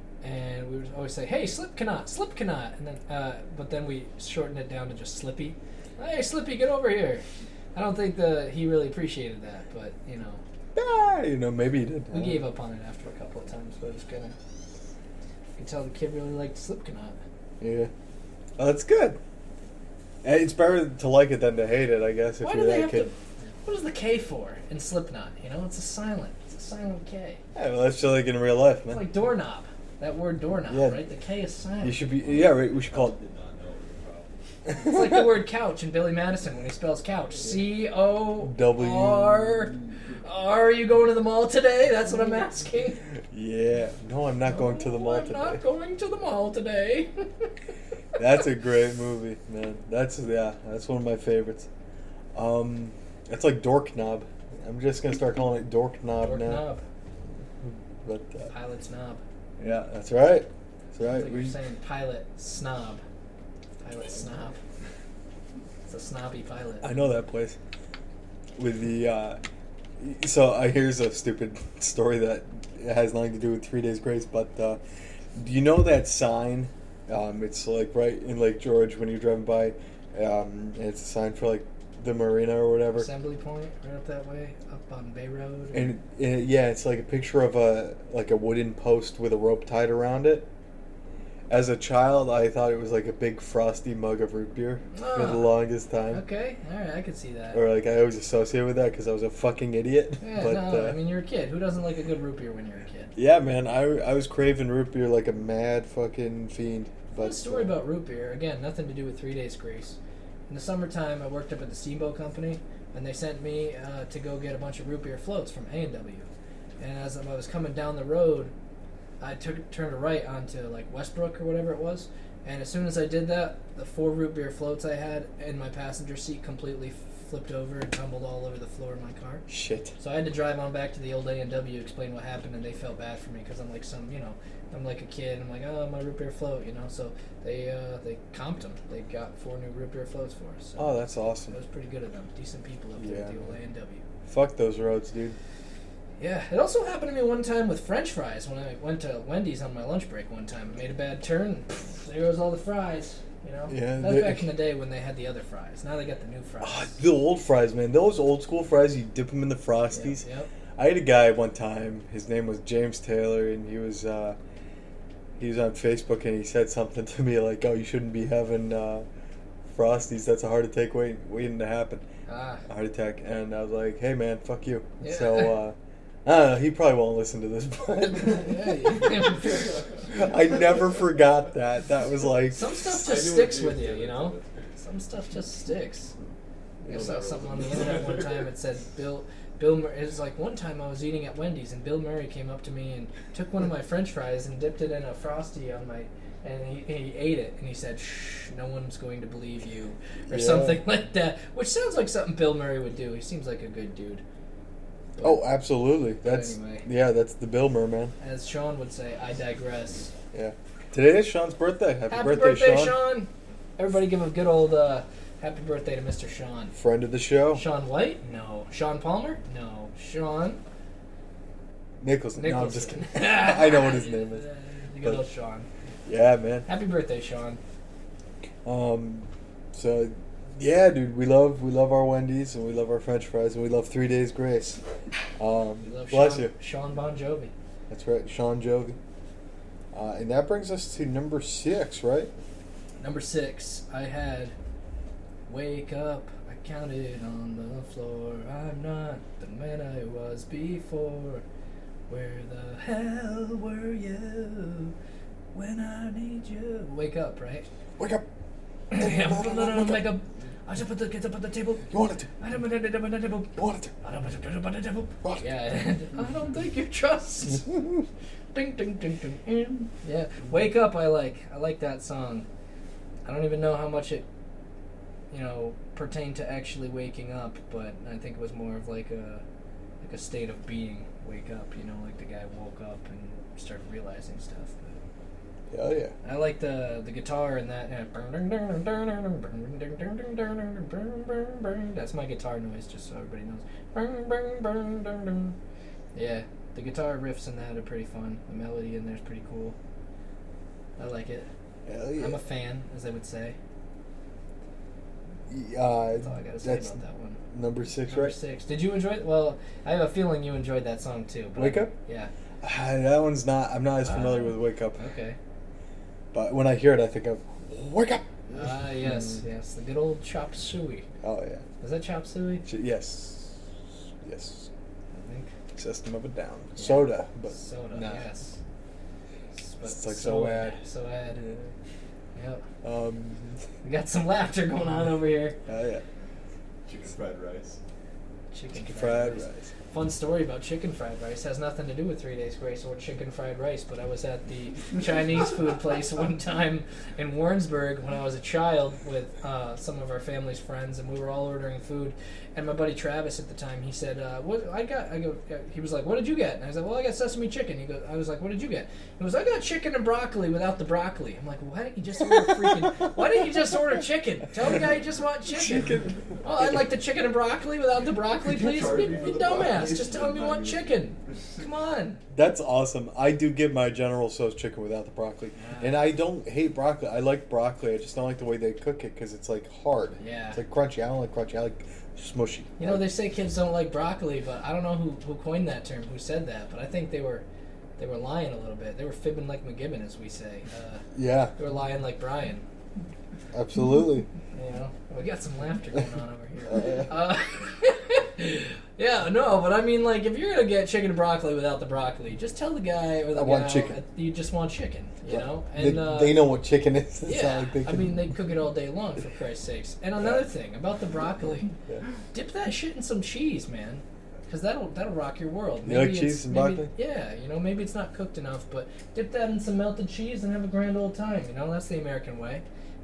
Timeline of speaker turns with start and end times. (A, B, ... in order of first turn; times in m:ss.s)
0:00.2-0:07.2 A
0:07.8-0:10.4 A
0:10.8-0:12.4 B
0:12.1-0:14.4 A
0:15.6-0:17.2 A
0:17.6-0:17.9 B
0:18.6-0:19.2 B
0:20.2-0:23.1 B
0:22.4-0:27.4 A
0:27.6-0:29.0 B
0:28.9-0:32.1 A
0:30.7-0:31.0 B
0:31.8-0:33.2 B
0:32.2-0:34.4 C
0:34.8-0:43.0 A
0:34.9-0:35.1 B
0:38.4-0:39.9 B
0:43.3-0:45.6 B
0:44.5-0:47.5 A
0:48.2-0:51.7 B
0:52.3-0:56.6 B
0:56.2-0:56.8 A
0:57.6-0:58.5 B
0:58.5-0:59.2 A
0:59.6-1:01.6 B
1:01.0-1:03.0 A
1:03.8-1:04.6 A
1:05.9-1:07.0 A
1:06.8-1:07.6 B
1:08.6-1:09.4 B
1:10.0-1:14.8 B
1:15.4-1:23.1 B
1:22.9-1:25.9 A
1:25.7-1:30.5 B
1:31.5-1:36.2 B
1:35.0-1:35.6 A
1:36.1-1:37.6 A
1:37.5-1:41.0 B
1:40.2-1:43.1 A
1:43.2-1:47.8 B
1:47.2-1:50.0 A
1:50.5-1:56.3 A
1:56.8-1:58.5 A
1:59.2-2:09.4 A
2:09.5-2:09.9 B
2:10.0-2:24.0 A
2:20.8-2:21.6 B
2:23.0-2:23.5 B
2:24.3-2:25.4 B
2:26.2-2:37.0 A
2:33.7-2:34.5 B
2:36.6-2:40.2 B
2:39.9-2:40.5 A
2:40.8-2:44.4 B
2:45.4-2:49.1 B
2:49.7-2:52.0 B
2:52.3-2:52.6 A
2:52.7-2:59.3 B
2:55.0-2:55.6 A
2:58.2-2:59.7 A
3:00.1-3:02.8 B
3:02.5-3:06.1 A
3:02.9-3:04.7 C
3:06.9-3:24.2 A
3:06.9-3:08.3 C
3:20.3-3:20.8 B
3:25.2-3:25.5 A
3:25.2-3:28.1 B
3:26.2-3:26.9 A
3:28.2-3:30.1 A
3:30.3-3:33.0 B
3:32.1-3:36.7 A
3:36.7-3:37.6 B
3:37.5-3:40.6 A
3:42.0-3:44.4 B
3:42.4-3:45.7 A
3:46.1-3:46.7 B
3:46.7-3:47.6 A
3:48.6-3:54.8 B
3:55.4-3:56.5 B
3:55.8-3:57.5 A
3:57.9-3:59.0 B
3:59.9-4:02.3 B
4:03.0-4:04.6 A
4:05.5-4:11.4 A
4:12.1-4:15.0 A
4:15.5-4:17.7 A
4:18.0-4:18.2 B
4:18.9-4:27.8 A
4:18.9-4:20.1 B
4:21.9-4:22.3 B
4:23.6-4:23.9 B
4:28.5-4:32.5 A
4:33.2-4:34.3 A
4:35.3-4:39.4 A
4:40.0-4:45.0 A
4:45.7-4:46.1 B
4:46.2-4:55.6 A
4:56.2-4:59.8 A
5:01.0-5:01.5 A
5:01.9-5:02.4 B
5:02.2-5:03.6 A
5:05.5-5:07.0 B
5:06.2-5:07.4 A
5:07.5-5:08.4 B
5:08.1-5:12.3 A
5:11.6-5:11.9 B
5:12.6-5:15.0 B
5:14.0-5:15.4 A
5:16.3-5:18.3 B
5:18.5-5:21.1 A
5:19.0-5:19.4 B
5:21.2-5:21.6 B
5:21.8-5:22.7 A
5:22.6-5:23.7 B
5:24.2-5:24.7 B
5:25.1-5:25.5 A
5:25.8-5:28.3 B
5:26.8-5:28.6 A
5:29.5-5:31.4 A
5:29.8-5:30.8 B
5:31.3-5:31.7 B
5:32.4-5:32.6 A
5:32.8-5:33.6 B
5:33.8-5:35.6 A
5:35.7-5:36.0 B
5:36.9-5:37.8 C
5:38.5-6:12.2 A
5:38.7-5:39.7 B
6:02.3-6:02.9 B
6:05.6-6:06.8 B
6:08.4-6:11.0 C
6:12.3-6:23.0 B
6:15.6-6:16.0 A
6:20.2-6:20.6 A
6:22.8-6:27.4 A
6:28.0-6:31.0 A
6:31.1-6:31.5 B
6:31.6-6:32.6 A
6:33.5-6:34.3 B
6:34.5-6:46.4 A
6:36.7-6:37.0 B
6:43.4-6:44.0 B
6:45.3-6:48.2 B
6:47.2-6:51.7 A
6:52.3-7:02.6 A
6:55.8-6:56.9 B